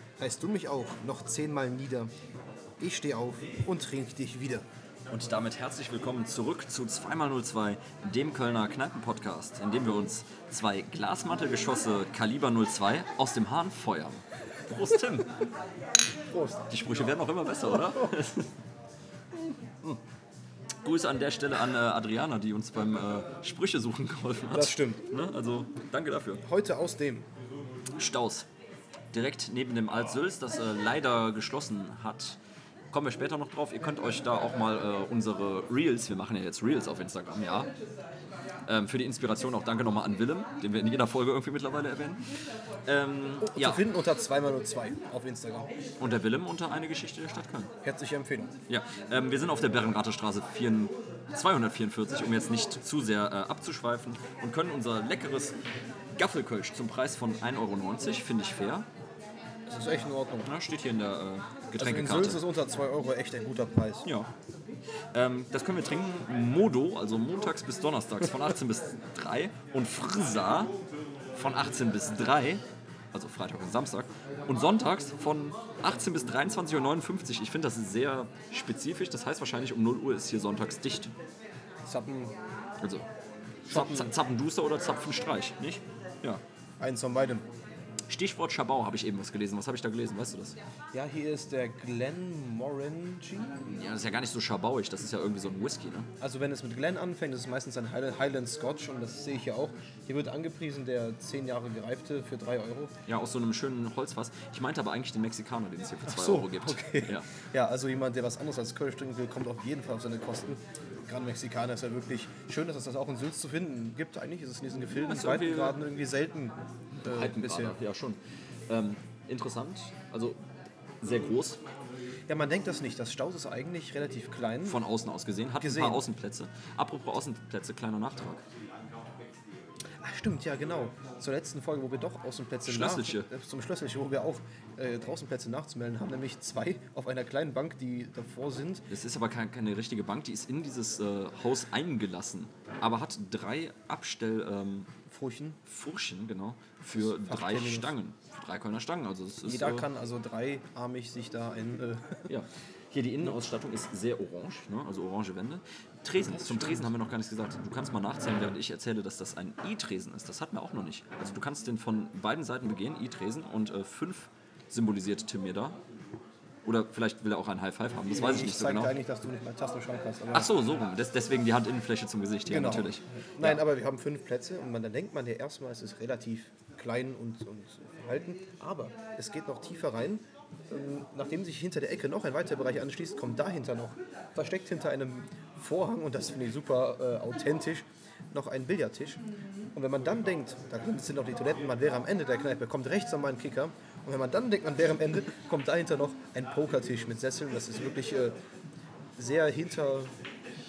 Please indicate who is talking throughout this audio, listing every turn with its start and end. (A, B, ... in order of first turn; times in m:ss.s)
0:00.2-0:02.1 A
0:02.8-0:04.6 A
0:05.1-0:15.4 B
0:16.3-0:16.7 A
0:16.7-0:18.5 B
0:20.8-0:26.4 B
0:24.5-0:25.0 A
0:26.4-0:27.2 A
0:28.0-0:28.5 B
0:29.1-0:32.4 B
0:32.9-0:37.7 B
0:38.7-0:42.3 B
0:42.8-0:43.8 B
0:43.4-0:45.7 A
0:46.0-0:47.7 B
0:47.8-0:48.5 A
0:48.7-0:55.6 B
0:56.2-0:58.9 B
0:59.7-1:00.5 A
1:00.4-1:02.4 B
1:01.7-1:04.1 A
1:04.0-1:04.3 B
1:05.1-1:10.7 B
1:11.3-1:21.1 B
1:21.8-1:22.3 A
1:22.8-1:23.1 B
1:23.7-1:26.4 B
1:23.7-1:24.1 A
1:26.8-1:27.4 A
1:28.1-1:30.6 B
1:30.9-1:33.8 A
1:33.6-1:36.1 B
1:36.2-1:42.9 A
1:43.1-1:47.3 B
1:46.1-1:57.8 A
1:55.0-1:55.8 B
1:57.0-2:00.4 B
2:01.0-2:01.6 B
2:02.3-2:04.8 A
2:04.6-2:08.4 B
2:05.6-2:06.0 A
2:10.0-2:18.9 A
2:12.6-2:13.3 B
2:18.9-2:24.9 B
2:25.1-2:25.6 A
2:25.6-2:29.9 B
2:26.9-2:27.9 A
2:29.4-2:32.3 A
2:32.3-2:45.8 B
2:36.2-2:36.9 A
2:46.6-2:49.0 B
2:48.1-2:50.5 A
2:50.3-2:53.6 B
2:52.5-3:09.2 A
3:09.7-3:18.3 A
3:19.2-3:20.1 A